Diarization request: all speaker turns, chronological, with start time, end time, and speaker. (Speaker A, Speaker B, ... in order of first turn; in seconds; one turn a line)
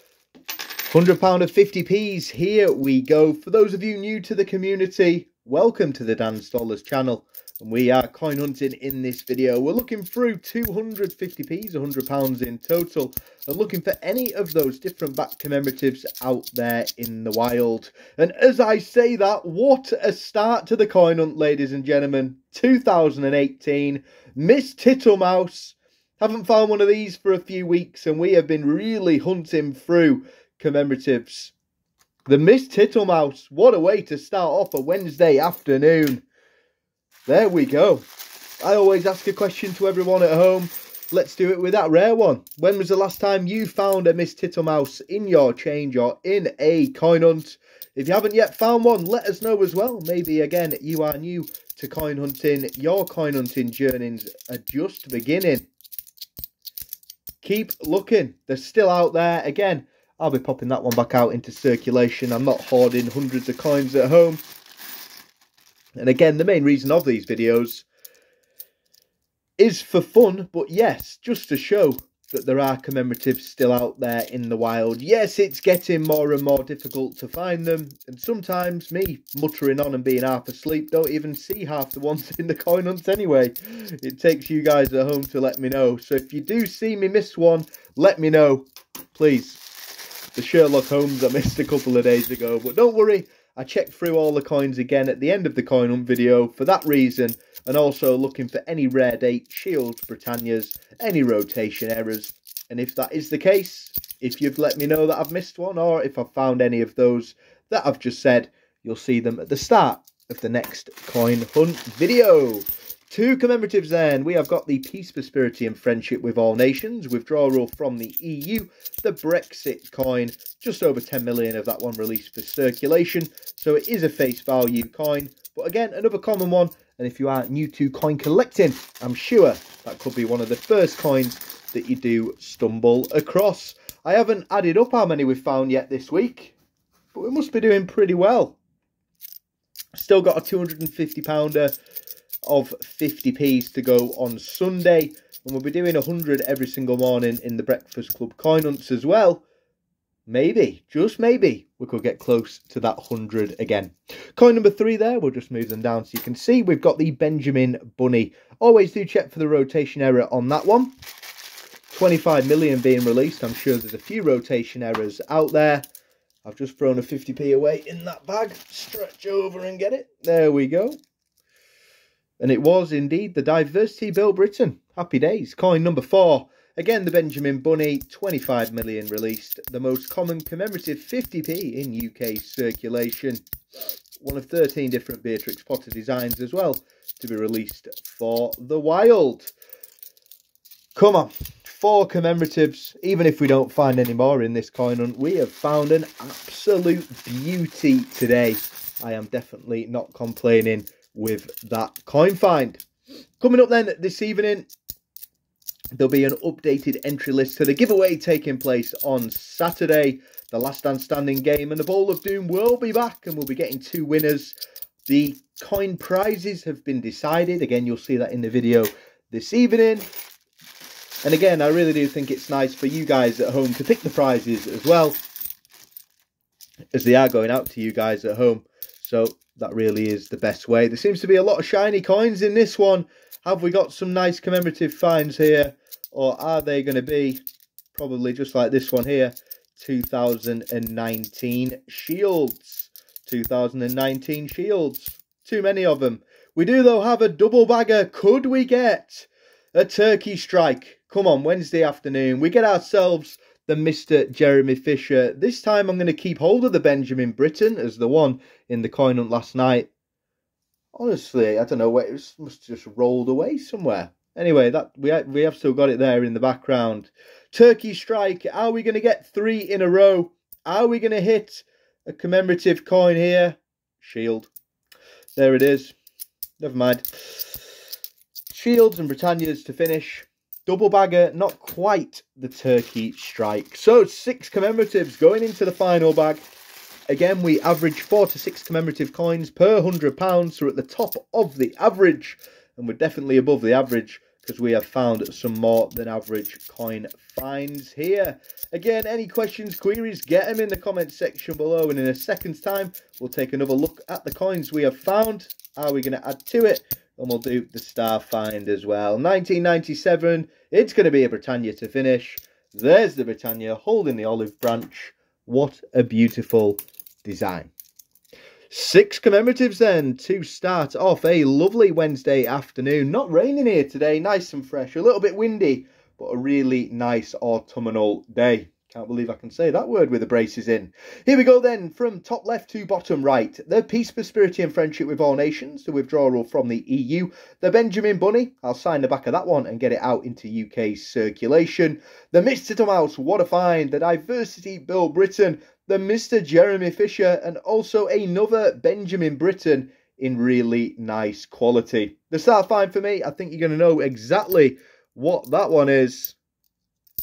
Speaker A: 0.8-31.5
Speaker A: 32.2-36.2
Speaker A: 37.3-38.0
Speaker A: 38.6-55.7
Speaker A: 57.4-64.4
Speaker A: 66.0-67.8
Speaker A: 69.6-89.6
Speaker A: 90.3-136.6
Speaker A: 137.1-138.6
Speaker A: 139.9-141.7
Speaker A: 142.4-149.4
Speaker A: 150.3-160.9
Speaker A: 161.9-165.9
Speaker A: 166.4-171.0
Speaker A: 172.4-183.4
Speaker A: 184.2-189.5
Speaker A: 190.9-202.8
Speaker A: 203.4-204.7
Speaker A: 205.9-220.1
Speaker A: 221.2-225.2
Speaker A: 226.9-237.4
Speaker A: 237.9-259.9
Speaker A: 260.9-274.5
Speaker A: 275.3-275.9
Speaker A: 276.6-277.6
Speaker A: 278.5-286.4
Speaker A: 287.1-317.7
Speaker A: 318.7-356.4